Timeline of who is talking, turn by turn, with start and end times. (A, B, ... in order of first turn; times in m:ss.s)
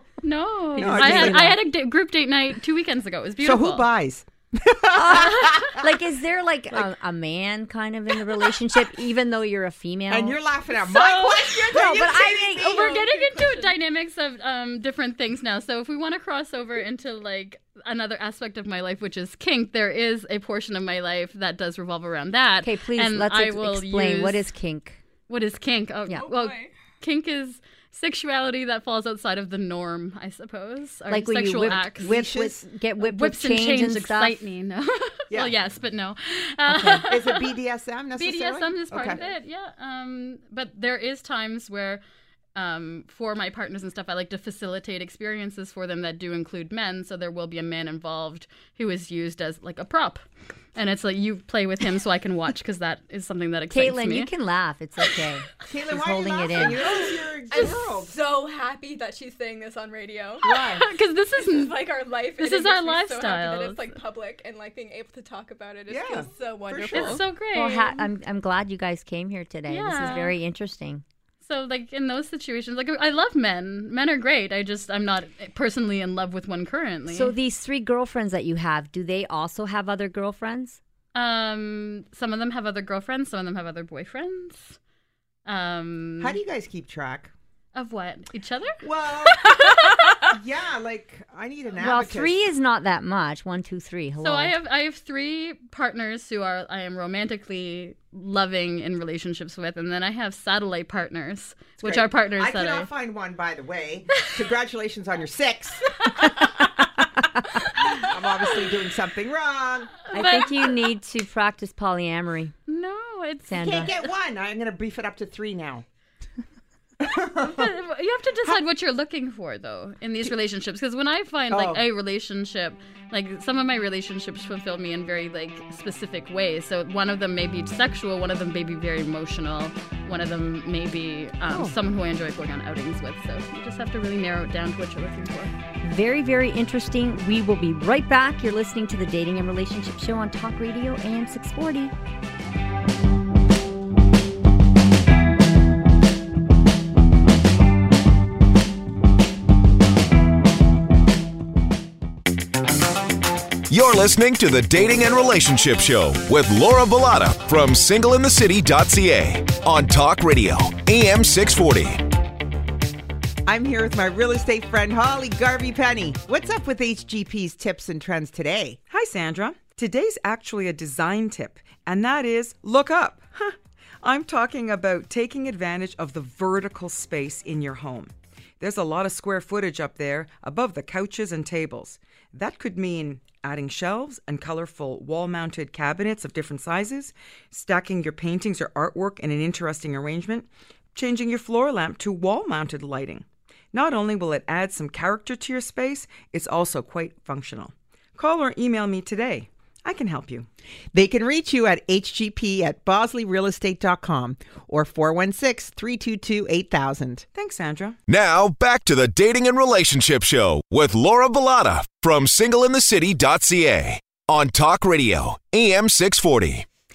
0:00.2-0:03.9 A
0:00.8-0:01.6 B
0:00.8-0:01.6 C
0:03.4-0:05.9 C
0:04.9-0:10.4 B
0:10.1-0:13.0 C
0:10.7-0:11.8 A
0:11.5-0:13.0 B
0:12.6-0:24.5 A
0:12.7-0:13.7 D
0:22.6-0:25.0 B
0:25.3-0:32.1 A
0:26.2-0:26.7 D
0:31.1-0:34.4 B
0:31.7-0:32.6 C
0:33.0-0:37.5 A
0:36.7-0:37.0 B
0:36.8-0:39.2 C
0:38.2-0:42.0 A
0:42.5-0:50.2 A
0:50.7-0:54.3 A
0:53.7-0:56.8 B
0:55.6-0:58.1 C
0:56.8-1:00.8 D
1:00.4-1:00.9 C
1:00.5-1:01.7 A
1:01.4-1:07.2 D
1:02.4-1:03.9 A
1:05.9-1:07.2 C
1:06.9-1:08.0 A
1:07.5-1:11.0 B
1:09.7-1:10.3 A
1:11.4-1:17.3 A
1:17.1-1:20.8 B
1:21.1-1:24.8 A
1:25.4-1:26.4 A
1:26.2-1:27.3 C
1:27.7-1:30.3 A
1:28.8-1:32.4 C
1:31.8-1:34.5 B
1:34.2-1:42.9 A
1:41.8-1:46.5 C
1:46.6-1:47.4 B
1:47.8-1:50.1 C
1:50.1-1:50.7 A
1:50.1-1:52.5 B
1:52.7-1:54.0 A
1:53.5-1:53.9 B
1:53.6-1:55.8 C
1:57.0-1:57.7 C
1:57.4-2:15.5 A
2:01.5-2:01.8 C
2:15.8-2:21.9 B
2:33.7-2:42.0 E
2:43.4-2:48.8 C
2:48.9-3:20.5 F
3:20.9-3:27.2 C
3:27.3-3:28.0 F
3:28.1-3:36.6 E